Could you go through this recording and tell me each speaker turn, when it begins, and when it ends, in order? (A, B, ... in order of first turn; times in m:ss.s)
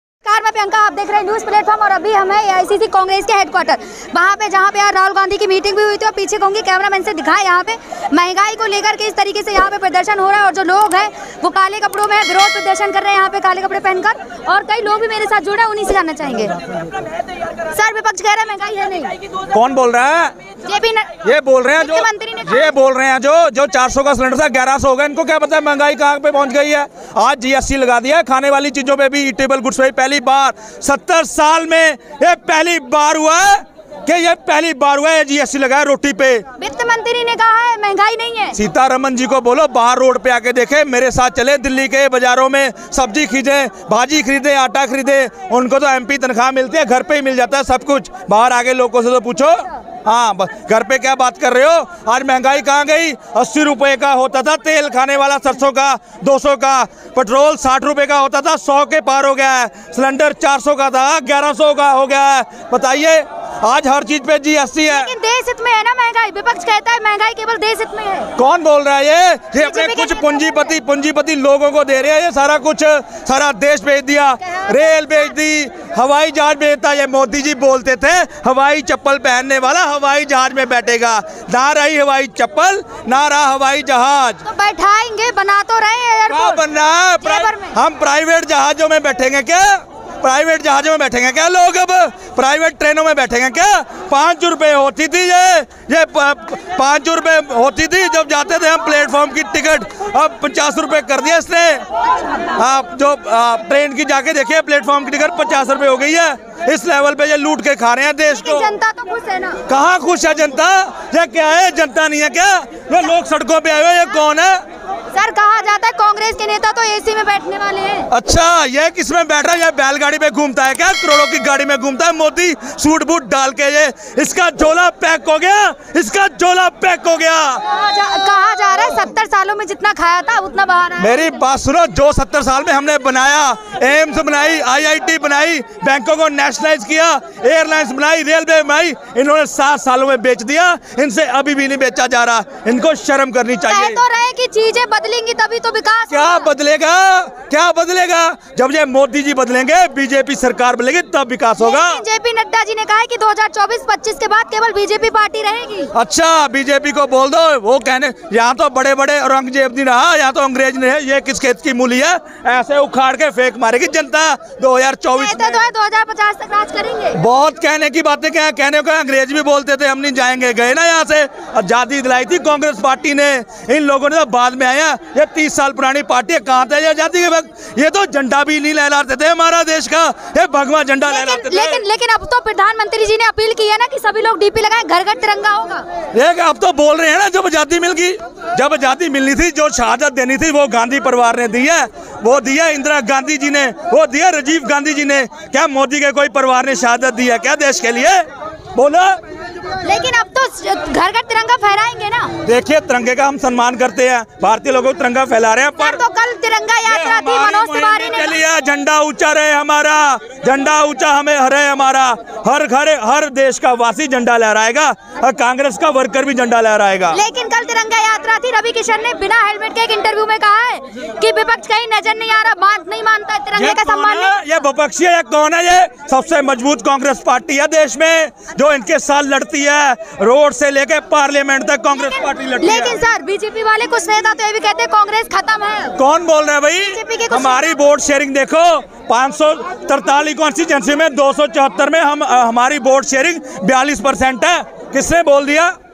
0:00.2-0:16.6 A
0:17.7-0:19.2 A
0:19.5-0:20.3 B
0:20.6-0:21.1 A
0:21.2-0:36.4 B
0:21.8-0:22.7 A
0:36.6-0:38.6 A
0:38.6-1:05.1 B
1:04.8-1:08.3 A
1:08.4-1:24.4 B
1:09.6-1:10.8 A
1:14.6-1:15.1 A
1:24.4-1:26.6 A
1:26.3-1:41.8 B
1:27.2-1:27.8 A
1:42.5-1:48.7 B
1:48.3-1:49.6 A
1:49.7-1:54.6 B
1:55.1-1:58.1 A
1:58.1-2:07.6 B
2:07.6-2:11.3 A
2:11.0-2:24.0 B
2:23.7-2:26.5 A
2:26.1-2:32.0 B
2:31.6-2:35.9 A
2:35.9-2:45.6 B
2:45.1-2:47.2 A
2:47.1-3:01.8 B
3:01.1-3:05.9 A
3:06.1-3:19.2 B
3:19.8-3:22.3 A
3:22.4-3:26.0 B
3:25.8-3:28.4 A
3:26.9-3:37.2 B
3:37.1-3:44.5 A
3:43.5-3:53.0 B
3:52.6-3:56.0 A
3:56.0-4:05.7 B
3:56.9-3:57.8 A